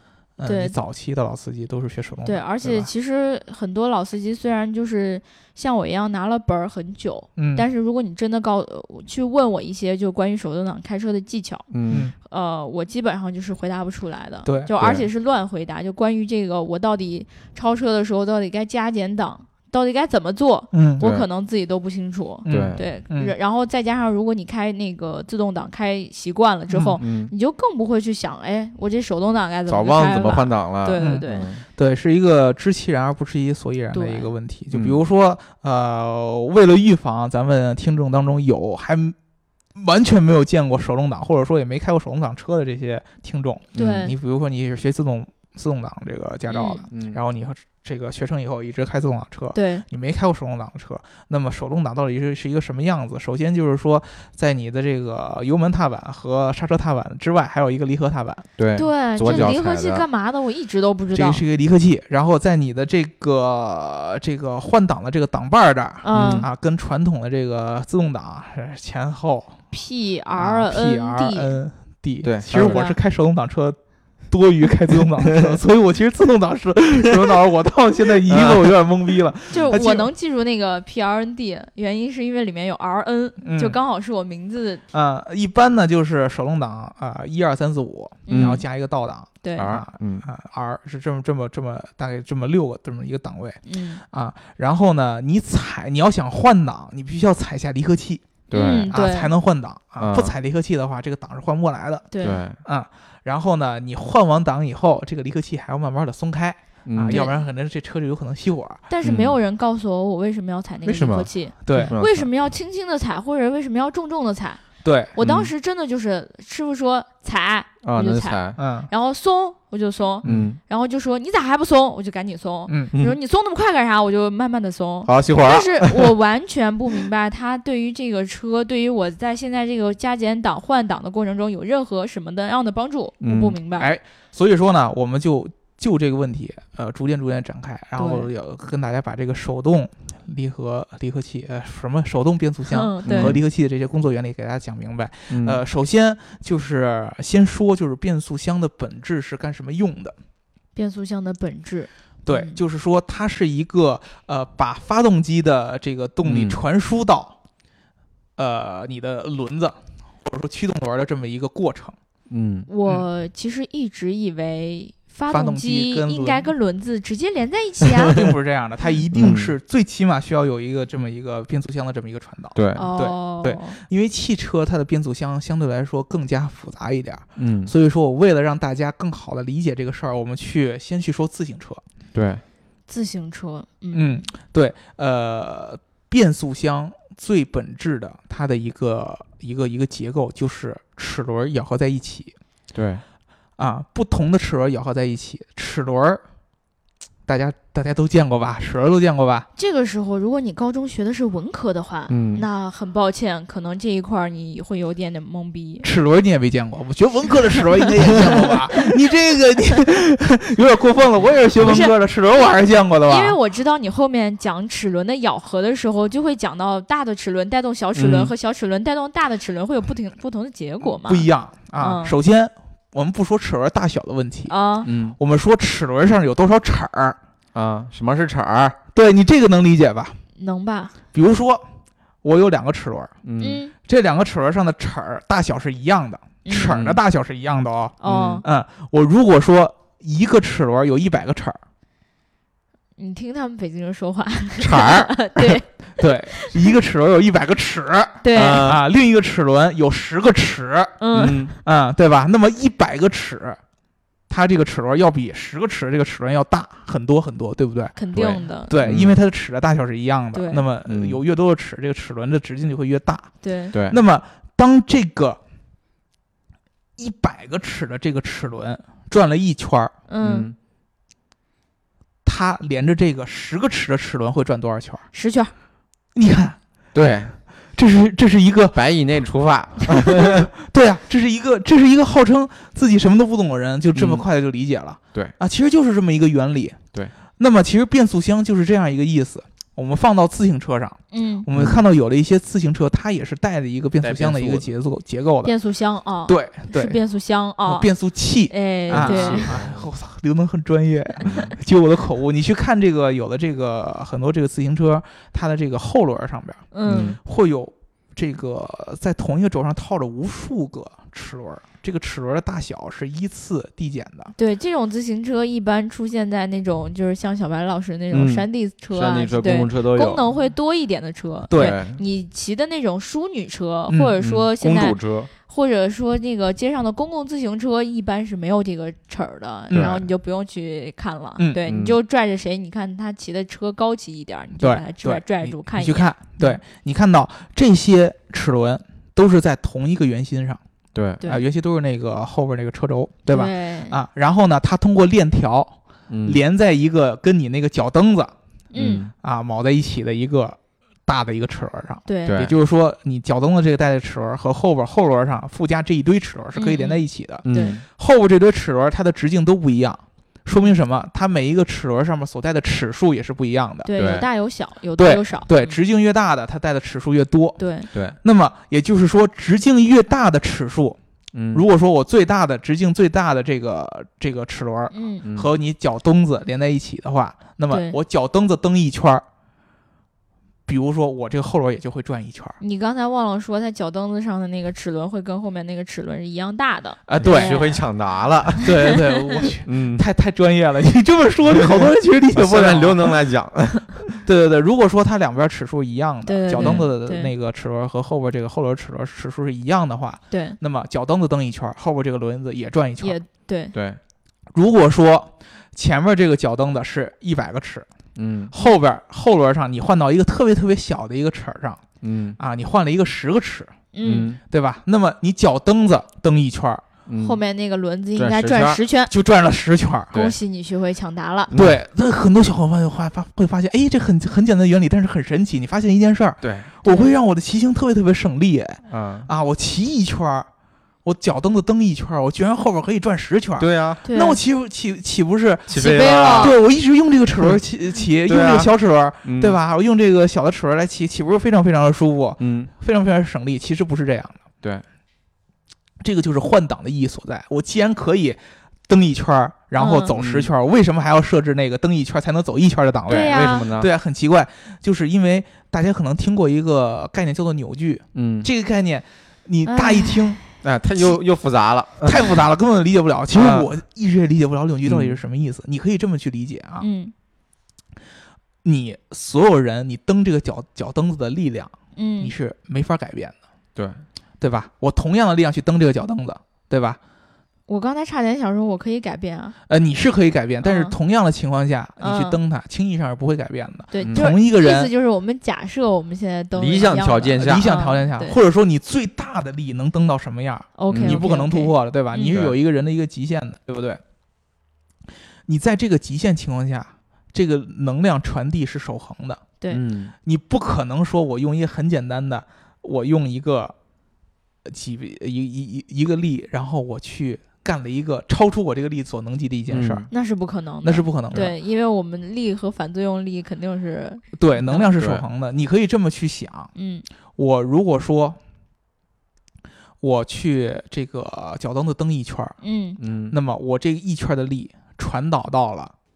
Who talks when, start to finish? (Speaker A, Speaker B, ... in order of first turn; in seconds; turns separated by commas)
Speaker A: 0.4-2.9, Speaker B: 0.4-0.8, Speaker B: 2.2-11.7, Speaker A: 7.4-7.7, Speaker C: 11.7-12.1, Speaker A: 11.9-12.1, Speaker B: 12.2-31.5, Speaker A: 14.4-14.7, Speaker C: 14.8-15.1, Speaker A: 20.7-21.1, Speaker C: 21.0-21.3, Speaker A: 22.4-23.3, Speaker C: 22.5-22.8, Speaker A: 26.7-27.0, Speaker C: 27.0-27.3, Speaker C: 29.7-31.6, Speaker A: 31.0-39.2, Speaker B: 33.9-34.4, Speaker C: 34.7-35.0, Speaker A: 39.8-58.5, Speaker B: 43.8-44.1, Speaker C: 43.8-44.1, Speaker B: 46.5-46.8, Speaker C: 46.9-47.2, Speaker B: 49.5-49.9, Speaker C: 58.6-60.0, Speaker B: 58.8-61.4, Speaker A: 59.2-59.5, Speaker A: 61.1-69.6, Speaker B: 66.0-66.5, Speaker C: 66.1-66.5, Speaker B: 69.7-71.6, Speaker A: 70.4-73.8, Speaker C: 72.2-72.8, Speaker B: 72.5-73.0, Speaker A: 74.3-80.1, Speaker C: 78.3-78.7, Speaker B: 79.5-84.8, Speaker A: 83.4-83.8, Speaker A: 84.9-108.8, Speaker B: 88.3-88.6, Speaker C: 88.3-88.6, Speaker B: 89.4-89.7, Speaker C: 89.6-90.3, Speaker B: 93.7-94.0, Speaker C: 98.5-98.9, Speaker B: 98.5-99.3, Speaker C: 100.0-100.3, Speaker B: 102.1-102.4, Speaker C: 102.2-102.6, Speaker C: 106.9-107.2, Speaker B: 107.1-107.3, Speaker B: 108.9-114.6, Speaker C: 109.0-109.4, Speaker C: 110.8-112.3, Speaker A: 111.7-112.0, Speaker A: 114.8-115.2, Speaker B: 115.1-133.9, Speaker C: 115.2-115.5, Speaker C: 117.8-118.6, Speaker A: 118.6-118.9, Speaker C: 120.2-120.6, Speaker A: 122.7-123.0, Speaker C: 125.1-126.1, Speaker C: 133.2-133.6, Speaker A: 133.8-150.2, Speaker B: 138.0-138.3, Speaker B: 142.7-143.4, Speaker C: 143.1-143.4, Speaker C: 145.3-145.6, Speaker B: 150.8-152.6, Speaker A: 152.3-157.4, Speaker C: 156.2-156.6, Speaker A: 158.4-161.9, Speaker C: 162.3-162.7, Speaker B: 162.7-168.2, Speaker A: 165.3-166.5, Speaker A: 168.1-181.8, Speaker C: 169.1-169.5, Speaker C: 172.6-172.9, Speaker B: 172.8-173.8, Speaker C: 177.4-177.7, Speaker C: 182.1-182.4, Speaker B: 182.9-184.2, Speaker A: 183.9-192.3, Speaker C: 192.7-193.0, Speaker A: 193.6-196.2, Speaker A: 197.3-199.5, Speaker B: 199.6-205.9, Speaker C: 202.1-202.5, Speaker A: 205.8-213.4, Speaker B: 207.8-208.5, Speaker B: 211.6-211.9, Speaker B: 213.1-221.3, Speaker C: 217.9-218.3, Speaker A: 221.0-224.5, Speaker B: 221.8-222.2, Speaker B: 224.5-224.9, Speaker C: 224.8-225.2, Speaker A: 225.2-227.2, Speaker C: 227.5-228.8, Speaker A: 228.9-230.2, Speaker B: 230.4-231.0, Speaker A: 231.1-231.7, Speaker A: 232.2-233.2, Speaker C: 233.2-233.6, Speaker B: 233.4-233.7, Speaker A: 233.8-241.6, Speaker B: 236.4-236.8, Speaker C: 236.5-237.0, Speaker B: 238.0-238.5, Speaker C: 238.1-238.4, Speaker B: 243.0-246.5, Speaker C: 244.8-245.1, Speaker A: 246.0-253.6, Speaker B: 248.2-248.7, Speaker C: 248.3-248.8, Speaker B: 251.0-251.4, Speaker C: 251.1-251.5, Speaker A: 254.3-258.0, Speaker B: 257.9-258.8, Speaker C: 258.1-259.2, Speaker A: 258.6-263.3, Speaker B: 260.3-260.6, Speaker C: 260.9-261.2, Speaker B: 263.4-263.7, Speaker C: 263.7-264.0, Speaker A: 263.9-265.4, Speaker A: 267.0-269.9, Speaker B: 270.1-270.5, Speaker C: 270.2-270.6, Speaker A: 272.2-275.1, Speaker B: 275.1-275.5, Speaker A: 276.1-276.6, Speaker C: 276.9-277.4, Speaker A: 277.8-278.8, Speaker C: 278.7-280.5, Speaker A: 279.9-286.8, Speaker C: 283.9-284.3, Speaker A: 287.4-295.5, Speaker B: 291.1-291.5, Speaker C: 291.5-291.8, Speaker C: 294.0-294.7, Speaker B: 295.4-297.9, Speaker A: 296.3-297.0, Speaker A: 297.6-314.4, Speaker B: 298.5-299.6, Speaker C: 298.9-299.9, Speaker C: 301.2-301.5, Speaker B: 306.7-307.2, Speaker C: 306.9-307.2, Speaker B: 314.4-336.6, Speaker C: 318.1-320.2, Speaker A: 321.5-321.8, Speaker C: 321.5-322.0, Speaker A: 323.9-324.1, Speaker C: 324.2-325.3, Speaker A: 329.7-330.0, Speaker C: 329.7-330.0, Speaker C: 331.7-332.0, Speaker A: 334.6-340.6, Speaker C: 340.9-341.2, Speaker A: 341.2-348.3, Speaker B: 343.3-344.0, Speaker C: 346.1-346.4, Speaker B: 348.7-349.1, Speaker C: 348.8-349.1, Speaker A: 349.1-363.9, Speaker B: 352.1-352.4, Speaker C: 352.3-352.6, Speaker B: 356.6-357.8, Speaker C: 357.4-357.9, Speaker B: 363.9-365.8, Speaker C: 364.0-364.3, Speaker A: 365.0-367.6, Speaker B: 367.6-367.9, Speaker A: 368.2-371.0, Speaker C: 371.3-371.6, Speaker A: 371.5-379.2, Speaker B: 374.9-375.2, Speaker C: 375.2-375.5, Speaker B: 377.7-378.0, Speaker A: 380.7-382.6, Speaker B: 382.6-387.8, Speaker A: 387.1-387.6, Speaker C: 387.2-388.9, Speaker A: 388.6-393.2, Speaker B: 388.9-389.4, Speaker C: 389.6-390.1, Speaker C: 391.6-394.1, Speaker A: 394.2-403.2, Speaker B: 396.2-397.3, Speaker C: 396.5-396.9, Speaker B: 400.3-400.6, Speaker B: 403.0-403.7, Speaker C: 403.7-404.0, Speaker A: 404.5-407.9, Speaker C: 408.2-408.5, Speaker A: 408.5-411.8, Speaker C: 412.0-412.4, Speaker A: 412.4-413.7, Speaker B: 413.9-414.3, Speaker C: 414.0-414.4, Speaker A: 414.5-416.8, Speaker C: 417.1-417.4, Speaker B: 417.2-419.1, Speaker C: 418.2-418.8, Speaker A: 419.1-420.2, Speaker B: 420.1-421.5, Speaker C: 421.5-421.8, Speaker A: 421.6-430.5, Speaker C: 426.4-426.7, Speaker B: 426.9-427.1, Speaker C: 428.9-429.3, Speaker A: 431.1-444.4, Speaker C: 433.6-434.0, Speaker B: 434.1-434.4, Speaker C: 435.7-436.6, Speaker B: 435.7-436.6, Speaker C: 438.3-438.7, Speaker C: 439.2-439.6, Speaker C: 442.4-442.7, Speaker A: 446.0-460.4, Speaker B: 449.8-450.1, Speaker C: 450.1-450.5, Speaker C: 453.1-453.9, Speaker B: 453.1-453.7, Speaker C: 458.1-458.5, Speaker B: 459.6-460.5, Speaker C: 460.6-462.4, Speaker A: 462.0-466.9, Speaker C: 463.3-463.7, Speaker C: 464.9-465.2, Speaker B: 466.8-467.1, Speaker A: 468.6-473.4, Speaker B: 472.0-472.3, Speaker C: 473.8-474.0, Speaker A: 474.4-477.0, Speaker B: 477.7-479.6, Speaker A: 479.7-484.9, Speaker B: 480.6-480.9, Speaker B: 482.0-482.4, Speaker B: 483.9-488.4, Speaker C: 486.6-487.6, Speaker A: 487.4-494.0, Speaker B: 490.8-492.4, Speaker C: 490.9-491.2, Speaker A: 495.5-499.4, Speaker C: 499.7-500.1, Speaker A: 500.2-503.7, Speaker A: 504.7-510.1, Speaker C: 509.7-510.1, Speaker B: 510.1-514.9, Speaker A: 510.8-511.5, Speaker A: 514.4-516.7, Speaker C: 515.0-515.2, Speaker B: 516.8-517.0, Speaker A: 517.4-518.4, Speaker A: 520.0-522.6, Speaker B: 522.6-523.0, Speaker C: 523.0-523.4, Speaker A: 523.3-525.9